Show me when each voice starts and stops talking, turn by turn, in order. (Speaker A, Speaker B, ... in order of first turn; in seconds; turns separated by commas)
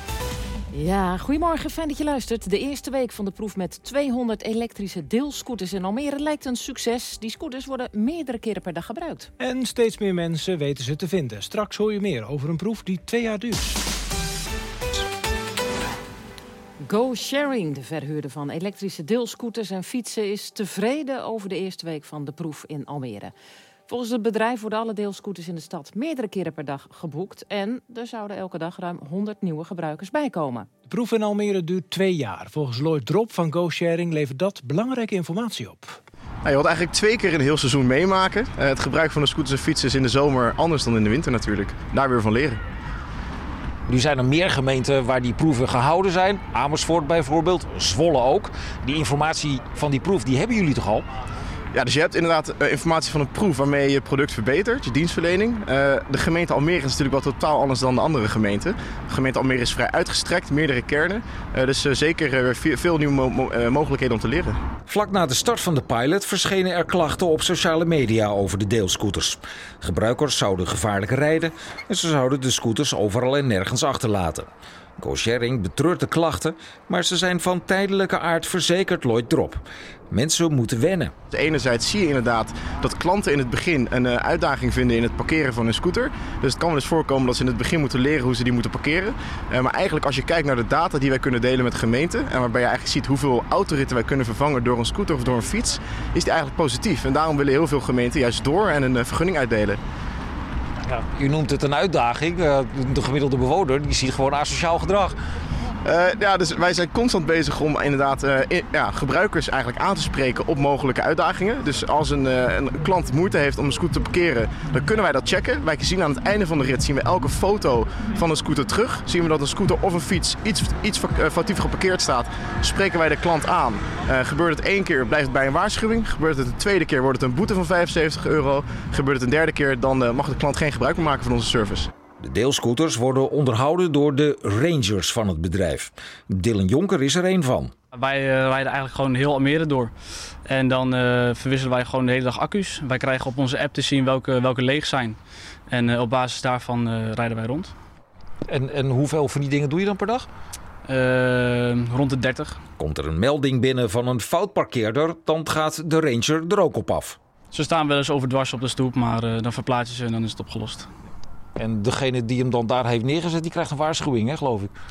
Speaker A: 0.7-9.3, Speaker B: 9.4-13.8, Speaker A: 16.8-23.3, Speaker A: 23.9-30.7, Speaker B: 30.9-36.0, Speaker C: 36.5-42.6, Speaker D: 43.9-51.0, Speaker C: 51.7-64.6, Speaker D: 64.9-74.5, Speaker D: 75.0-81.1, Speaker C: 81.3-99.8, Speaker D: 100.9-105.2, Speaker C: 105.8-131.9, Speaker D: 132.2-137.7, Speaker E: 137.9-139.9, Speaker E: 140.4-147.7, Speaker D: 148.5-150.3, Speaker E: 150.8-152.6, Speaker D: 152.8-157.2, Speaker E: 157.5-160.9, Speaker D: 161.6-164.7